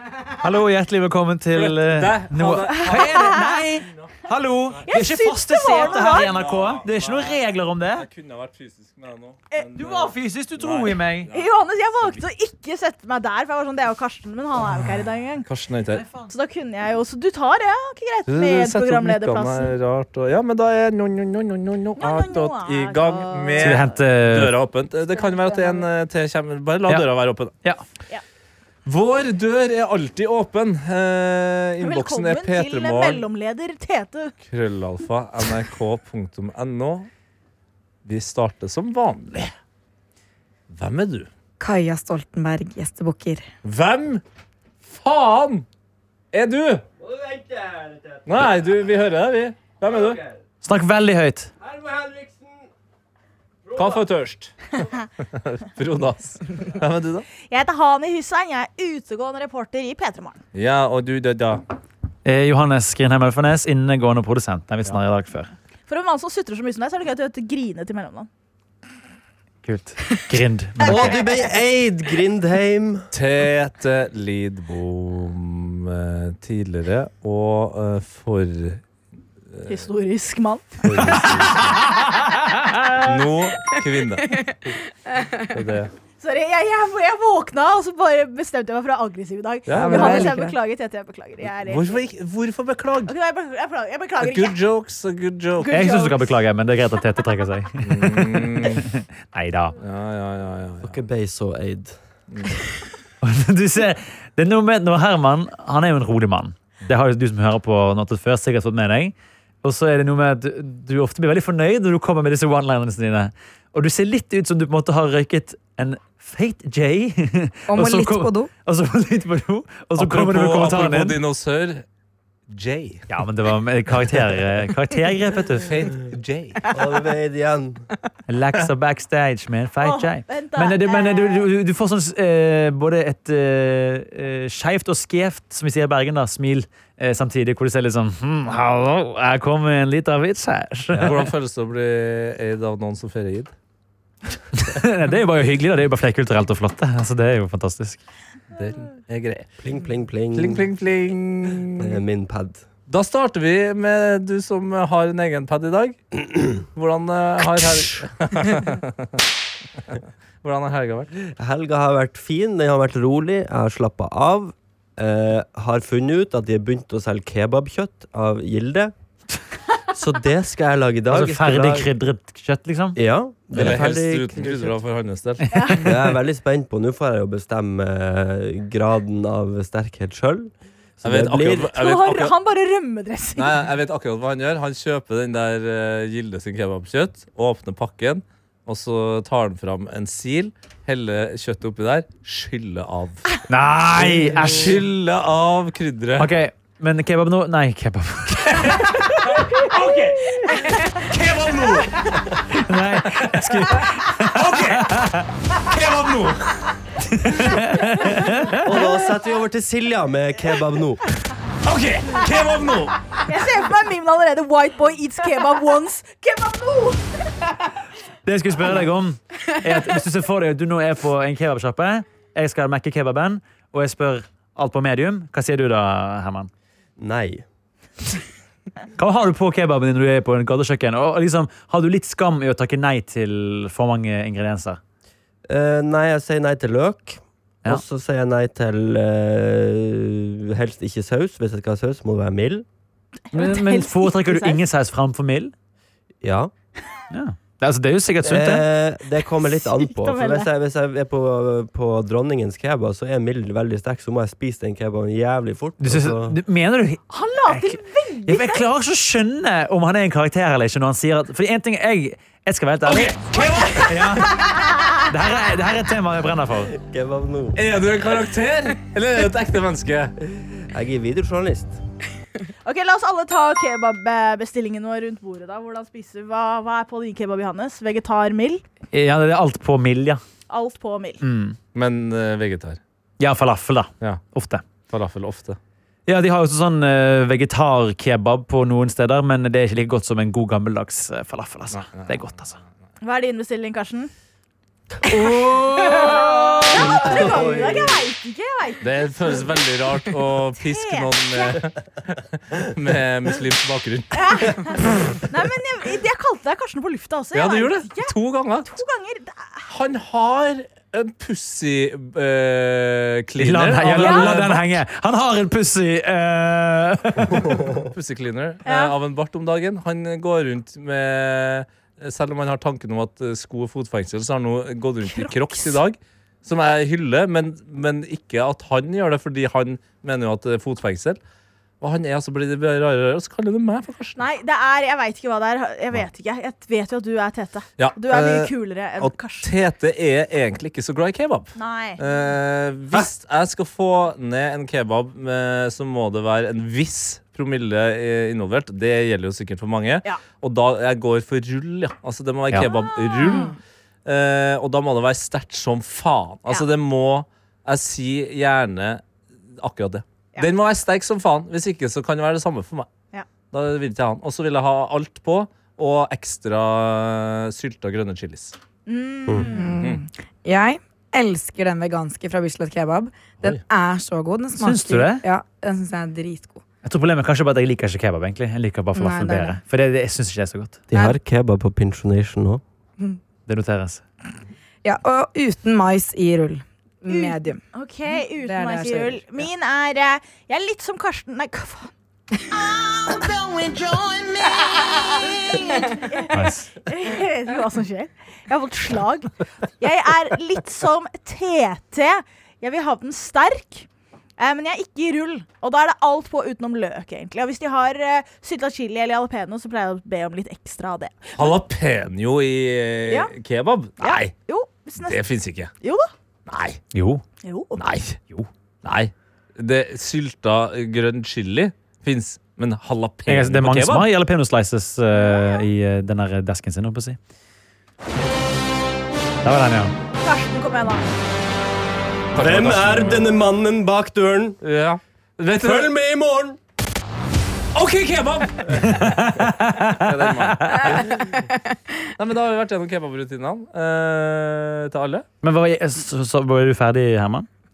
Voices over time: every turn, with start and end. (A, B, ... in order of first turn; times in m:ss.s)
0:00.4-0:08.1 A
0:01.6-0:04.1 B
0:02.9-0:03.5 C
0:04.9-0:06.3 C
0:05.8-0:07.4 B
0:07.9-0:12.2 B
0:09.8-0:11.3 A
0:11.3-0:15.5 C
0:15.5-0:16.0 B
0:16.0-0:16.3 A
0:16.3-0:19.7 C
0:18.3-0:27.5 B
0:22.0-0:23.9 C
0:23.6-0:24.6 A
0:25.1-0:25.9 D
0:28.9-0:33.2 B
0:31.8-0:34.3 C
0:34.4-0:37.1 B
0:38.0-0:39.5 B
0:40.7-0:41.3 B
0:41.6-0:43.5 D
0:43.6-0:44.2 B
0:44.9-0:45.6 B
0:46.3-0:46.8 B
0:47.0-0:48.4 E
0:48.3-0:50.2 B
0:49.9-0:50.3 E
0:50.6-0:51.5 A
0:51.6-0:52.7 E
0:53.7-0:54.0 E
0:53.8-0:54.6 B
0:55.3-0:57.3 B
0:57.4-1:00.4 C
1:00.5-1:01.6 B
1:02.2-1:05.5 A
1:05.9-1:08.3 C
1:09.6-1:11.2 A
1:10.8-1:13.1 E
1:13.1-1:18.8 B
1:19.6-1:19.8 B
1:19.7-1:21.1 C
1:20.9-1:21.6 E
1:20.9-1:21.4 B
1:21.6-1:22.5 A
1:22.7-1:23.3 C
1:23.0-1:24.4 B
1:25.5-1:25.9 B
1:26.2-1:32.0 C
1:29.7-1:30.3 B
1:29.8-1:30.6 D
1:31.7-1:33.1 B
1:33.1-1:34.6 C
1:34.2-1:35.9 B
1:35.6-1:36.3 C
1:35.7-1:39.8 A
1:37.8-1:38.9 B
1:39.8-1:41.0 B
1:40.8-1:42.0 E
1:43.2-2:01.2 A
1:57.7-1:58.5 D
2:00.0-2:01.8 B
2:02.5-2:03.1 B
2:03.1-2:05.7 A
2:05.6-2:06.6 B
2:06.7-2:07.8 E
2:08.3-2:21.1 A
2:09.8-2:11.5 C
2:20.9-2:21.2 E
2:21.0-2:23.5 B
2:24.5-2:28.0 A
2:28.5-2:29.5 B
2:29.6-2:30.6 E
2:30.3-2:32.0 B
2:31.8-2:32.6 E
2:32.9-2:39.2 B
2:39.9-2:41.1 B
2:41.3-2:48.9 E
2:49.9-2:51.9 E
2:51.1-2:53.0 A
2:53.0-2:54.8 E
2:53.5-2:55.5 B
2:55.5-2:55.9 A
2:55.5-2:55.9 C
2:55.8-3:01.7 E
3:01.0-3:02.4 B
3:01.7-3:03.6 C
3:03.4-3:13.3 B
3:13.5-3:14.8 A
3:14.0-3:14.6 E
3:14.2-3:16.3 B
3:16.2-3:19.0 A
3:18.4-3:22.3 B
3:19.7-3:20.5 C
3:22.4-3:25.3 A
3:23.2-3:26.7 B
3:27.0-3:28.7 A
3:28.6-3:31.0 E
3:31.6-3:33.0 B
3:33.3-3:37.3 C
3:38.2-3:46.5 A
3:47.0-3:47.4 E
3:49.0-3:54.8 A
3:55.5-4:02.6 E
4:03.3-4:04.6 C
4:03.3-4:05.5 A
4:06.2-4:06.5 E
4:07.1-4:08.7 A
4:08.2-4:16.4 E
4:09.8-4:10.5 C
4:15.8-4:26.7 A
4:17.1-4:18.6 C
4:22.9-4:24.0 B
4:23.4-4:24.9 C
4:26.7-4:27.6 E
4:27.6-4:30.1 B
4:30.4-4:31.8 E
4:32.6-4:38.6 C
4:38.9-4:40.2 A
4:40.5-4:41.2 C
4:41.2-4:41.6 A
4:41.7-4:42.8 B
4:43.2-4:44.6 A
4:44.9-4:45.6 B
4:46.1-4:52.6 A
4:51.7-4:52.2 B
4:53.0-4:54.1 C
4:54.9-4:58.1 E
4:55.1-4:59.4 C
4:55.1-4:57.0 A
4:58.8-5:04.7 B
5:00.7-5:01.6 C
5:04.1-5:08.2 C
5:07.3-5:08.8 B
5:08.7-5:09.6 C
5:09.7-5:14.7 B
5:13.4-5:17.6 A
5:14.0-5:14.4 C
5:17.7-5:31.2 B
5:18.7-5:18.9 C
5:25.0-5:25.7 C
5:31.8-5:34.2 B
5:34.2-5:39.5 C
5:37.8-5:59.0 B
5:41.6-5:42.3 C
5:52.6-5:53.5 C
5:59.6-6:02.9 B
6:03.5-6:08.6 B
6:08.9-6:09.9 C
6:09.5-6:16.6 D
6:14.6-6:15.2 A
6:16.8-6:20.8 A
6:18.9-6:19.6 D
6:20.9-6:22.6 E
6:23.5-6:24.0 A
6:24.8-6:27.6 D
6:27.1-6:31.9 C
6:28.4-6:29.2 D
6:32.6-6:33.4 C
6:33.4-6:34.3 B
6:34.4-6:43.9 C
6:36.3-6:36.7 A
6:44.4-6:51.5 C
6:51.4-6:54.3 B
6:54.0-6:55.2 C
6:55.0-6:55.7 B
6:55.8-6:56.1 C
6:56.5-6:56.8 B
6:56.9-6:57.2 A
6:57.4-6:57.8 C
6:57.8-6:58.2 B
6:58.8-7:04.1 B
7:03.3-7:07.2 A
7:05.2-7:05.6 C
7:09.4-7:09.9 A
7:10.2-7:11.0 C
7:12.3-7:13.3 B
7:12.4-7:14.6 E
7:14.6-7:15.9 B
7:15.6-7:16.6 E
7:17.7-7:21.4 B
7:18.7-7:20.9 A
7:21.0-7:21.6 D
7:22.2-7:25.3 B
7:25.4-7:27.5 A